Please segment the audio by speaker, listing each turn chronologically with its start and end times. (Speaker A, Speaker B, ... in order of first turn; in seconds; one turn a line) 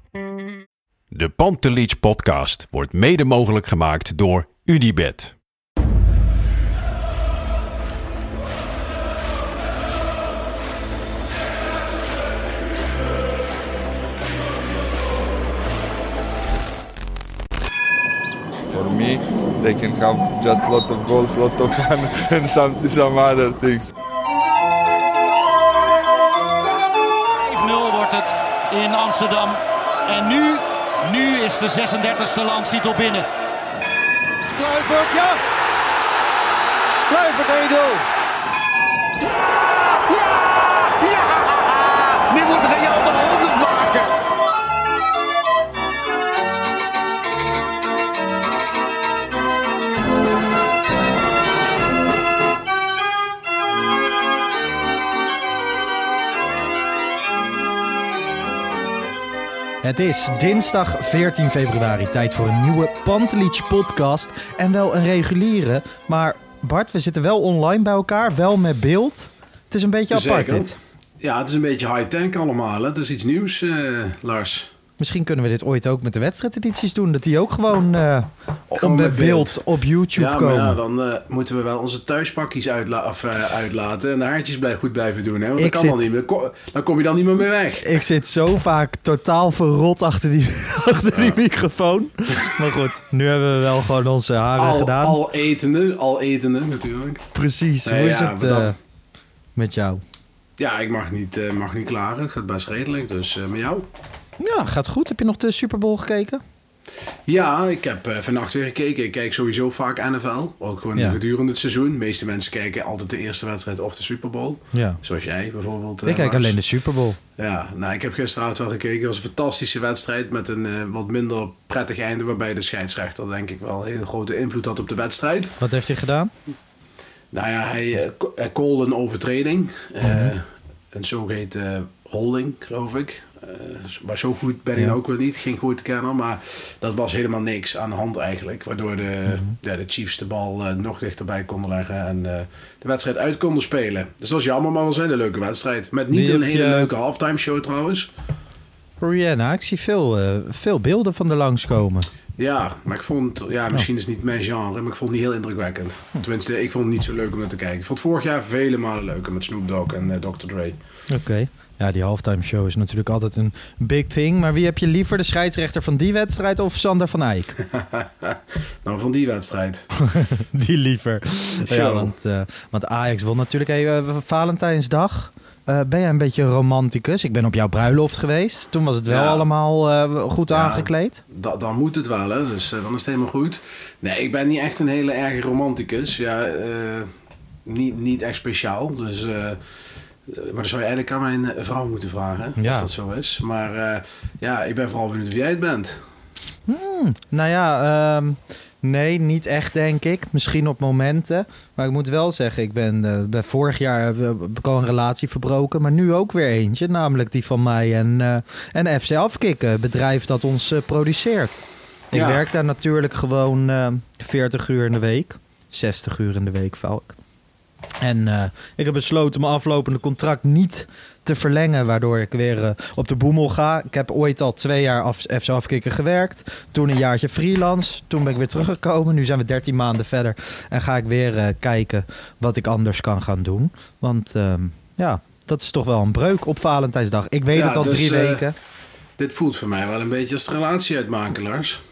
Speaker A: 1.1-5.3
Speaker B: 18.7-23.9
Speaker C: 27.3-33.2
Speaker C: 34.6-35.4
Speaker C: 37.1-38.0
Speaker C: 39.5-44.1
Speaker D: 59.8-70.7
Speaker E: 70.1-74.7
Speaker D: 75.0-80.8
Speaker E: 78.7-79.6
Speaker E: 80.2-88.0
Speaker D: 85.6-86.0
Speaker D: 87.8-95.2
Speaker E: 94.5-97.2
Speaker D: 97.3-98.8
Speaker E: 97.8-98.7
Speaker D: 99.5-100.0
Speaker E: 100.6-103.8
Speaker D: 104.4-106.4
Speaker E: 107.3-116.5
Speaker D: 114.7-115.0
Speaker D: 116.0-117.2
Speaker E: 117.4-125.5
Speaker D: 125.6-126.3
Speaker E: 127.3-148.1
Speaker D: 130.0-130.3
Speaker D: 146.1-146.9
Speaker D: 149.0-152.1
Speaker E: 152.4-160.8
Speaker D: 161.1-167.5
Speaker E: 167.7-169.9
Speaker D: 170.0-181.2
Speaker E: 171.7-172.1
Speaker E: 179.1-179.4
Speaker E: 180.5-187.1
Speaker E: 187.7-189.6
Speaker E: 190.3-196.0
Speaker D: 192.6-192.9
Speaker D: 196.7-217.2
Speaker E: 212.1-212.4
Speaker D: 218.0-238.5
Speaker E: 237.5-238.5
Speaker E: 239.2-241.8